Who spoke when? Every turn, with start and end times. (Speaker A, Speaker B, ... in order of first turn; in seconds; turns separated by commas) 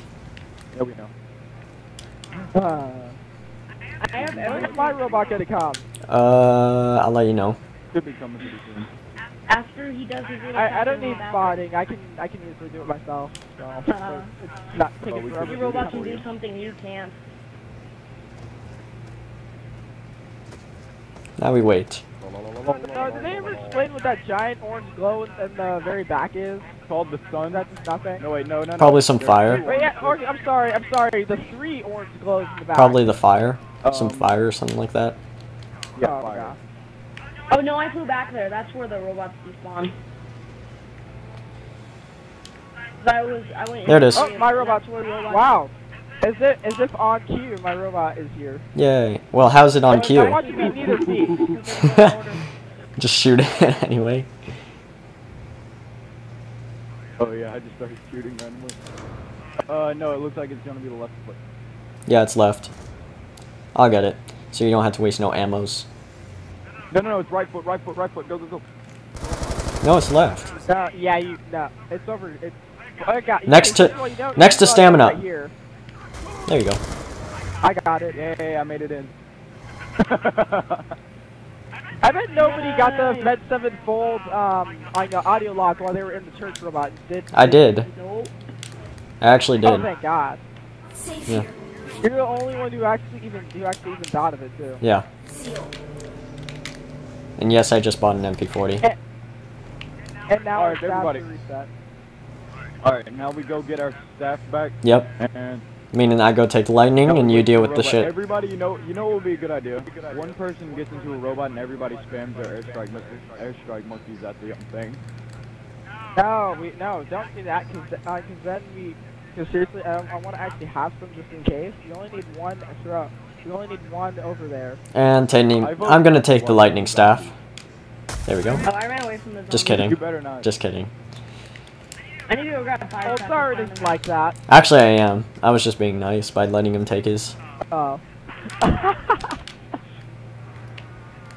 Speaker A: 0.7-1.1, Speaker A: 2.3-2.8, Speaker B: 2.5-3.1, Speaker C: 4.0-5.1, Speaker A: 4.2-5.4, Speaker B: 4.4-5.8, Speaker D: 6.1-7.6, Speaker A: 7.9-8.9, Speaker C: 9.5-11.6, Speaker B: 10.5-16.2, Speaker C: 13.9-14.5, Speaker A: 15.1-16.2, Speaker C: 15.4-17.2, Speaker D: 21.4-22.0, Speaker A: 22.2-23.9, Speaker B: 22.8-26.7, Speaker A: 26.9-27.6, Speaker B: 27.5-28.2, Speaker A: 28.2-30.2, Speaker D: 28.8-29.6, Speaker B: 29.6-33.0, Speaker D: 32.7-35.2, Speaker A: 33.8-34.3, Speaker A: 36.0-36.6, Speaker B: 36.0-36.6, Speaker C: 37.5-39.9, Speaker C: 43.0-45.5, Speaker D: 43.9-44.3, Speaker B: 44.1-48.6, Speaker D: 48.7-50.5, Speaker C: 49.9-52.5, Speaker B: 49.9-51.5, Speaker D: 53.0-54.3, Speaker A: 57.2-58.8, Speaker A: 59.7-61.4, Speaker D: 62.1-62.7, Speaker D: 63.7-65.8, Speaker A: 66.9-68.6, Speaker D: 69.8-70.5, Speaker B: 70.7-75.5, Speaker D: 73.5-75.2, Speaker D: 76.5-76.8, Speaker B: 77.6-78.2, Speaker A: 78.1-79.1, Speaker A: 80.0-80.9, Speaker B: 82.0-87.5, Speaker C: 82.4-83.3, Speaker D: 87.3-87.9, Speaker C: 87.5-88.3, Speaker D: 89.2-89.9, Speaker B: 89.6-90.4, Speaker B: 92.0-94.8, Speaker D: 94.8-95.0, Speaker D: 97.4-98.8, Speaker B: 100.3-101.7, Speaker A: 100.5-101.2, Speaker A: 102.8-105.7, Speaker D: 104.8-105.1, Speaker D: 105.9-108.1, Speaker A: 107.0-115.0, Speaker B: 116.1-124.8, Speaker D: 124.9-127.3, Speaker A: 125.6-127.3, Speaker D: 128.2-128.6, Speaker C: 128.6-129.9, Speaker D: 129.5-130.9, Speaker A: 129.8-130.5, Speaker C: 132.3-134.0, Speaker B: 133.0-134.4, Speaker D: 134.5-137.3, Speaker B: 137.7-138.0, Speaker B: 138.6-139.4